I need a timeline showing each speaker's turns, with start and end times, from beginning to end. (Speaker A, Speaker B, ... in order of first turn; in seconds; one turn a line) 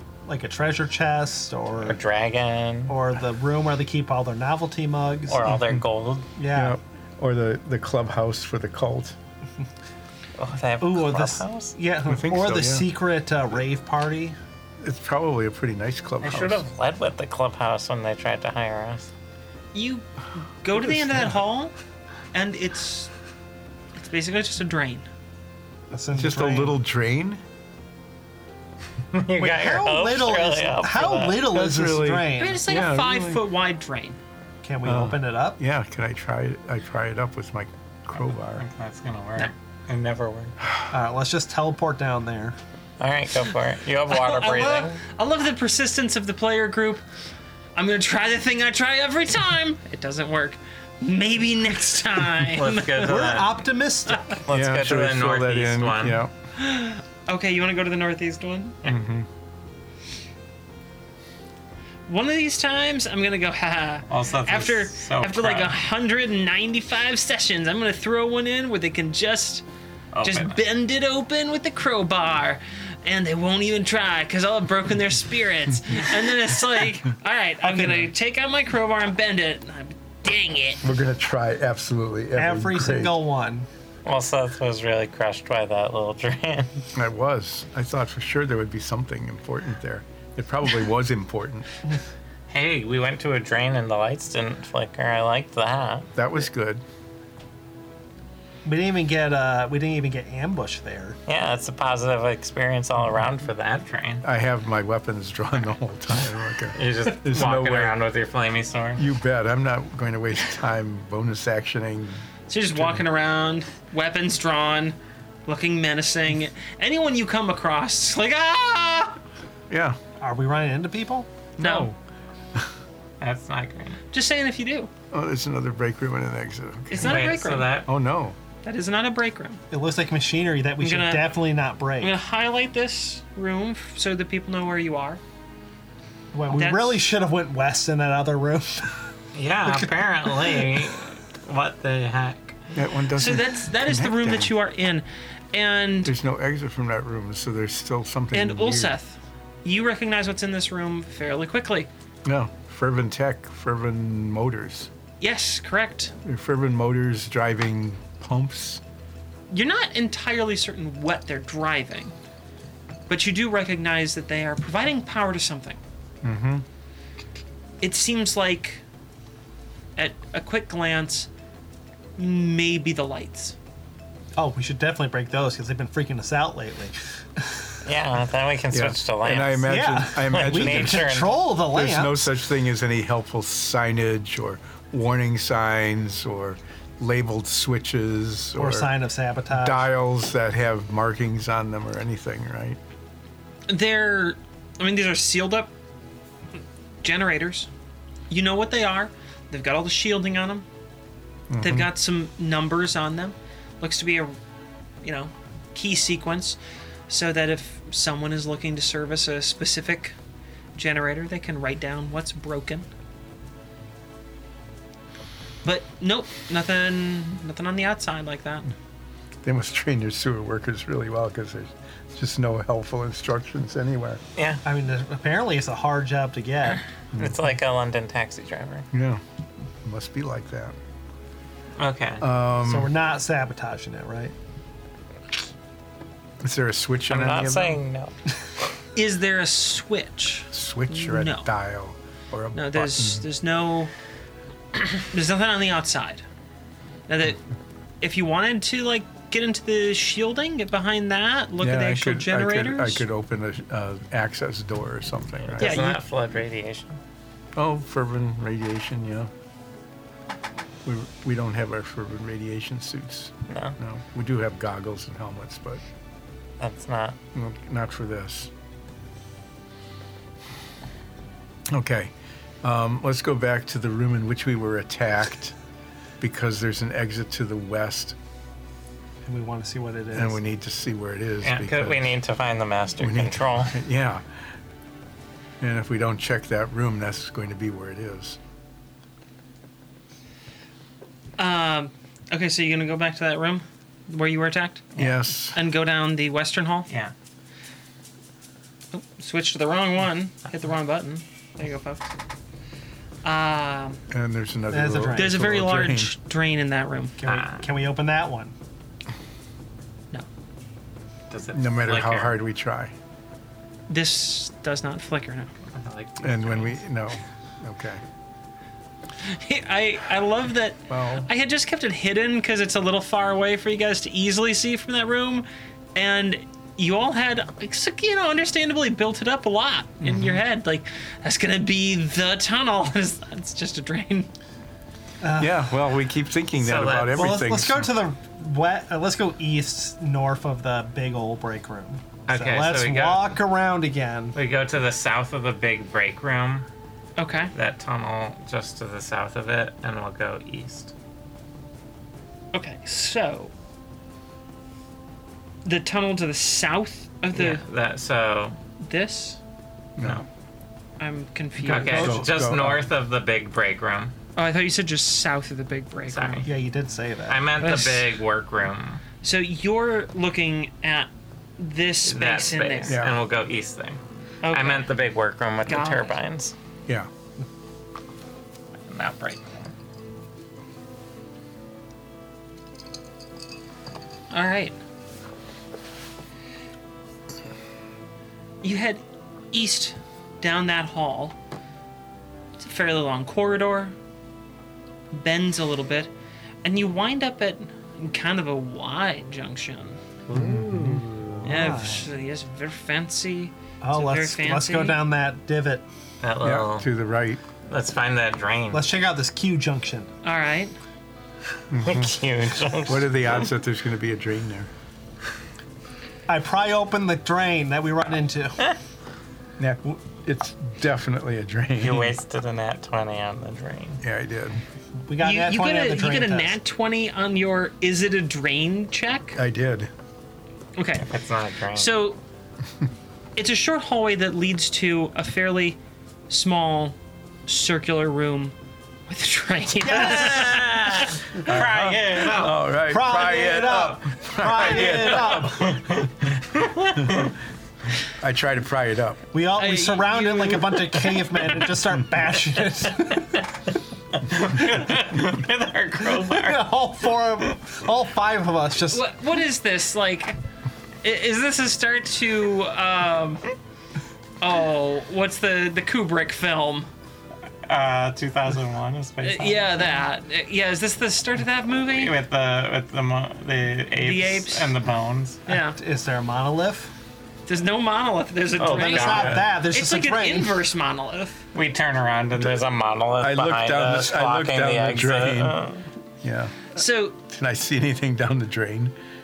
Speaker A: 0.3-2.0
Speaker B: 1.8-3.0
Speaker A: 2.9-5.6
Speaker B: 5.3-6.3
Speaker C: 5.5-5.8
Speaker A: 6.4-6.8
Speaker C: 6.5-9.2
Speaker B: 10.4-11.8
Speaker A: 10.8-14.4
Speaker C: 12.1-12.9
Speaker C: 14.8-16.6
Speaker B: 16.2-19.1
Speaker D: 19.7-20.1
Speaker D: 20.6-21.7
Speaker C: 20.8-21.3
Speaker D: 22.3-23.1
Speaker D: 24.0-25.1
Speaker A: 25.9-26.8
Speaker C: 26.1-27.4
Speaker B: 29.1-31.5
Speaker A: 29.4-32.6
Speaker C: 31.5-33.4
Speaker D: 32.4-34.2
Speaker A: 34.6-35.6
Speaker C: 34.9-38.6
Speaker B: 38.1-40.5
Speaker A: 40.9-42.6
Speaker B: 43.0-45.0
Speaker D: 44.1-47.0
Speaker D: 47.8-53.2
Speaker B: 52.5-53.7
Speaker A: 53.0-54.4
Speaker B: 54.5-56.2
Speaker C: 54.5-56.3
Speaker D: 56.5-58.8
Speaker C: 58.9-59.3
Speaker D: 62.1-69.7
Speaker B: 64.1-65.8
Speaker B: 70.1-70.6
Speaker D: 70.2-80.8
Speaker A: 77.6-78.1
Speaker C: 80.8-83.2
Speaker A: 82.3-83.7
Speaker B: 84.0-86.9
Speaker C: 86.9-91.7
Speaker B: 92.5-96.1
Speaker C: 96.2-96.8
Speaker A: 98.7-101.2
Speaker B: 101.3-104.2
Speaker C: 104.2-108.0
Speaker B: 106.7-109.0
Speaker C: 109.0-112.2
Speaker D: 112.5-119.2
Speaker C: 112.7-113.0
Speaker C: 119.7-120.0
Speaker A: 120.2-121.3
Speaker C: 121.6-122.0
Speaker D: 121.6-121.9
Speaker B: 123.2-124.0
Speaker D: 124.1-124.9
Speaker C: 125.1-127.3
Speaker D: 126.9-127.8
Speaker B: 127.0-127.9
Speaker C: 127.9-128.4
Speaker D: 128.6-129.6
Speaker A: 129.7-132.1
Speaker D: 130.8-131.4
Speaker D: 132.0-135.2
Speaker A: 136.3-138.9
Speaker D: 136.5-137.0
Speaker B: 139.3-142.6
Speaker A: 139.7-140.8
Speaker C: 142.8-144.5
Speaker D: 143.2-146.1
Speaker C: 146.1-149.0
Speaker D: 148.3-151.9
Speaker C: 152.2-154.9
Speaker D: 155.2-156.1
Speaker C: 156.2-158.8
Speaker D: 159.5-162.2
Speaker D: 163.1-165.8
Speaker C: 166.2-166.7
Speaker D: 167.8-168.8
Speaker D: 170.0-171.3
Speaker D: 172.2-173.6
Speaker A: 174.4-177.6
Speaker B: 177.8-181.4
Speaker C: 178.7-188.9
Speaker A: 179.7-182.3
Speaker A: 188.6-189.9
Speaker C: 189.5-192.8
Speaker D: 193.7-195.7
Speaker D: 197.0-197.7
Speaker D: 198.3-200.7
Speaker C: 201.5-201.9
Speaker D: 201.6-204.4
Speaker D: 205.0-206.6
Speaker D: 207.1-210.2
Speaker D: 210.8-212.9
Speaker D: 215.6-218.7
Speaker C: 219.4-224.2
Speaker B: 224.4-224.6
Speaker A: 224.7-226.8
Speaker C: 227.1-227.4
Speaker B: 227.2-228.9
Speaker C: 228.9-229.2
Speaker C: 229.8-230.8
Speaker B: 231.8-232.2
Speaker C: 232.2-232.9
Speaker A: 232.6-234.3
Speaker C: 236.4-237.8
Speaker B: 237.1-238.1
Speaker D: 238.9-241.5
Speaker C: 240.5-243.3
Speaker D: 242.6-243.9
Speaker D: 245.1-246.2
Speaker D: 247.1-247.4
Speaker D: 248.0-253.1
Speaker C: 251.6-255.8
Speaker B: 255.4-257.0
Speaker D: 255.6-256.0
Speaker C: 257.6-259.3
Speaker C: 260.9-265.8
Speaker B: 263.5-263.8
Speaker B: 266.6-267.2
Speaker C: 267.3-268.5
Speaker C: 271.7-272.1
Speaker C: 272.6-275.6
Speaker C: 276.2-278.2
Speaker A: 279.2-280.4
Speaker C: 280.1-282.1
Speaker B: 281.4-283.8
Speaker C: 283.0-284.3
Speaker C: 285.6-288.4
Speaker D: 291.4-294.9
Speaker C: 295.0-295.6
Speaker D: 295.5-296.9
Speaker D: 298.9-302.1
Speaker D: 303.2-304.0
Speaker C: 304.1-306.1
Speaker A: 304.7-305.4
Speaker D: 305.1-307.2
Speaker A: 307.2-308.5
Speaker B: 307.2-307.7
Speaker B: 311.3-312.4
Speaker C: 311.5-312.9
Speaker D: 313.9-315.5
Speaker B: 315.7-316.8
Speaker C: 316.2-318.0
Speaker D: 319.2-334.3
Speaker C: 320.9-321.3
Speaker C: 330.0-330.4
Speaker A: 335.2-335.7
Speaker C: 335.4-338.0
Speaker B: 336.6-337.4
Speaker A: 337.1-344.4
Speaker B: 342.3-343.4
Speaker B: 344.4-346.7
Speaker D: 347.2-347.5
Speaker B: 347.5-350.9
Speaker D: 352.5-353.5
Speaker D: 355.6-357.6
Speaker B: 357.3-358.6
Speaker D: 358.8-359.4
Speaker C: 360.0-360.3
Speaker D: 361.0-362.2
Speaker B: 361.6-364.1
Speaker C: 361.9-362.9
Speaker D: 364.4-366.5
Speaker B: 366.1-366.5
Speaker A: 366.4-367.5
Speaker B: 367.3-369.0
Speaker D: 367.6-368.1
Speaker D: 369.2-373.0
Speaker B: 372.1-374.0
Speaker C: 372.9-373.2
Speaker D: 374.4-374.9
Speaker B: 374.5-376.6
Speaker D: 375.7-376.2
Speaker B: 378.9-379.7
Speaker D: 384.3-384.8
Speaker D: 388.6-391.4
Speaker D: 392.6-393.9
Speaker D: 395.1-396.1
Speaker D: 396.6-400.0
Speaker B: 400.3-401.7
Speaker C: 400.3-401.1
Speaker A: 401.4-402.1
Speaker D: 401.4-405.0
Speaker A: 403.8-405.8
Speaker B: 406.2-406.9
Speaker C: 406.4-407.4
Speaker B: 407.7-408.9
Speaker A: 408.7-410.1
Speaker D: 410.2-410.8
Speaker C: 411.7-412.1
Speaker B: 411.8-413.5
Speaker C: 412.9-414.7
Speaker A: 416.3-418.7
Speaker C: 419.6-422.2
Speaker B: 421.8-424.0
Speaker C: 424.0-424.6
Speaker A: 425.1-426.6
Speaker D: 425.2-429.4
Speaker C: 429.4-429.9
Speaker D: 430.8-431.1
Speaker B: 431.0-431.9
Speaker D: 431.8-432.2
Speaker D: 433.4-435.8
Speaker D: 436.3-437.0
Speaker D: 437.5-438.6
Speaker D: 439.1-441.2
Speaker A: 439.8-440.7
Speaker B: 439.9-442.7
Speaker C: 441.3-445.6
Speaker A: 442.8-445.8
Speaker B: 444.7-447.4
Speaker C: 448.1-449.2
Speaker A: 449.3-453.4
Speaker D: 449.6-451.5
Speaker B: 454.2-456.7
Speaker A: 456.1-459.0
Speaker D: 458.9-460.4
Speaker D: 461.0-463.4
Speaker D: 464.4-466.9
Speaker B: 467.6-470.0
Speaker D: 469.2-472.1
Speaker B: 472.0-475.4
Speaker D: 474.0-474.8
Speaker D: 475.5-475.8
Speaker A: 475.5-476.9
Speaker D: 477.5-481.4
Speaker B: 478.6-479.5
Speaker A: 478.6-480.6
Speaker B: 481.5-485.9
Speaker C: 483.2-485.6
Speaker C: 486.2-488.9
Speaker D: 486.7-487.2